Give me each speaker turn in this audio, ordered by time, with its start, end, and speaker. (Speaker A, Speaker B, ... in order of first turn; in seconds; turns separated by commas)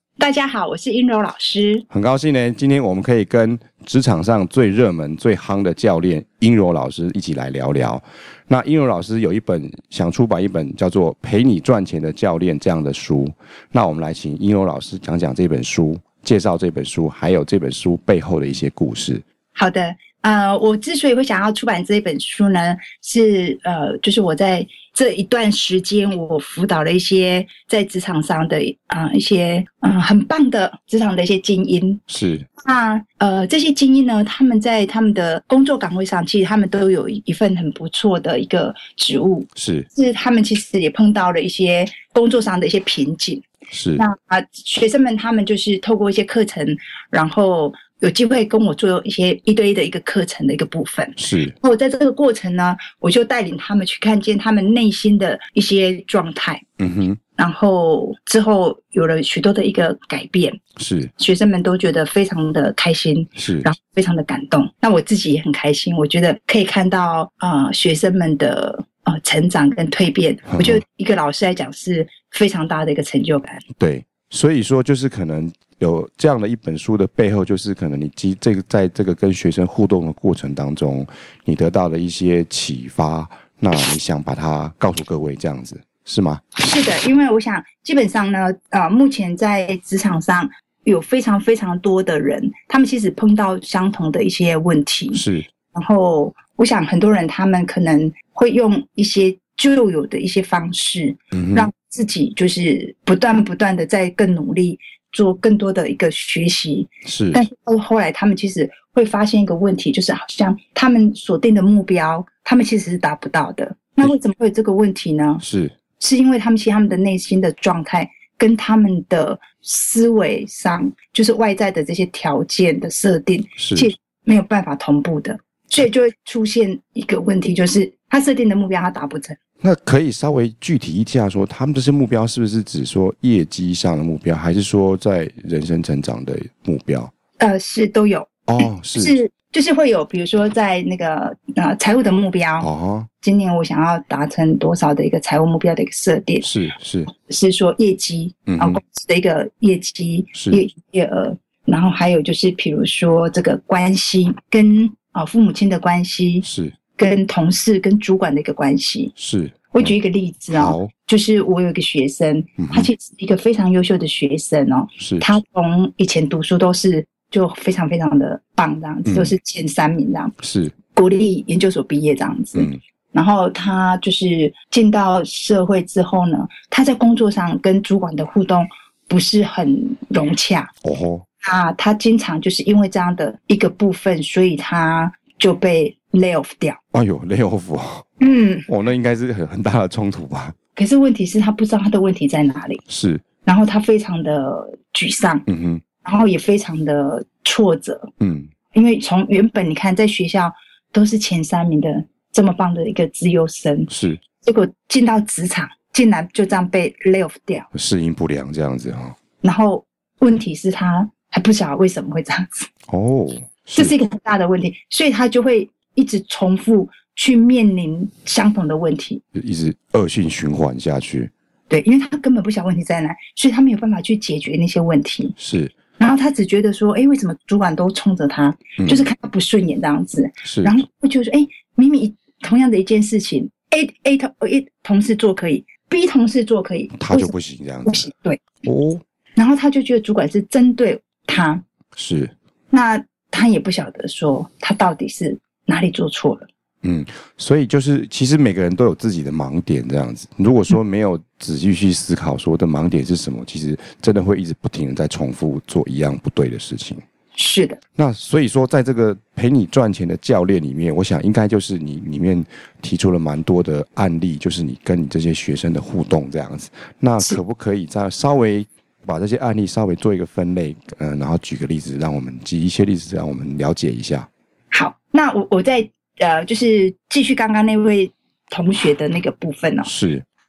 Speaker A: 0.2-1.9, Speaker B: 1.9-19.2, Speaker A: 19.6-32.0, Speaker B: 32.1-32.5, Speaker A: 32.6-43.5, Speaker B: 39.6-39.9, Speaker B: 43.7-44.0, Speaker A: 44.0-56.6, Speaker B: 51.2-51.6, Speaker B: 56.8-57.2, Speaker A: 57.4-60.6, Speaker B: 60.8-61.1, Speaker A: 61.2-73.6, Speaker B: 63.4-63.7, Speaker B: 70.5-70.8, Speaker B: 73.8-86.4, Speaker A: 86.6-95.2, Speaker B: 95.1-95.5, Speaker A: 95.7-115.4, Speaker B: 101.3-101.7, Speaker B: 107.0-107.4, Speaker B: 115.4-115.8, Speaker A: 116.0-129.4, Speaker B: 123.6-123.9, Speaker B: 129.6-137.1, Speaker A: 137.4-142.7, Speaker B: 138.5-139.2, Speaker B: 142.6-143.1, Speaker A: 143.2-146.5, Speaker B: 146.4-147.1, Speaker A: 147.1-156.4, Speaker B: 148.5-148.8, Speaker B: 150.3-150.6, Speaker B: 156.4-156.8, Speaker A: 157.0-159.1, Speaker B: 159.2-159.9, Speaker A: 159.7-170.3, Speaker B: 160.5-160.9, Speaker B: 162.6-162.9, Speaker B: 165.0-165.2, Speaker B: 169.1-169.3, Speaker B: 170.4-170.8, Speaker A: 170.9-180.7, Speaker B: 172.5-172.8, Speaker B: 180.8-181.2, Speaker A: 181.4-186.8, Speaker B: 186.9-188.1, Speaker A: 188.2-188.7, Speaker B: 188.7-190.6, Speaker A: 190.8-192.8, Speaker B: 192.9-193.2, Speaker A: 193.4-195.4, Speaker B: 195.5-195.8, Speaker A: 196.0-198.1, Speaker B: 198.2-198.5, Speaker A: 198.7-203.9, Speaker B: 203.9-204.2, Speaker A: 204.4-207.7, Speaker B: 207.7-209.2, Speaker A: 209.4-212.7, Speaker B: 212.9-213.9, Speaker A: 213.8-219.2, Speaker B: 219.3-221.3, Speaker A: 221.7-225.3, Speaker B: 225.4-225.8, Speaker A: 226.0-237.3, Speaker B: 228.8-229.1, Speaker B: 230.4-230.8, Speaker B: 237.0-238.1, Speaker A: 237.8-238.5, Speaker B: 238.6-239.0, Speaker A: 239.4-241.6, Speaker B: 242.0-242.3, Speaker A: 242.7-246.5, Speaker B: 246.8-257.0, Speaker A: 257.4-257.8, Speaker B: 258.0-274.3, Speaker A: 274.7-279.9, Speaker B: 279.8-280.2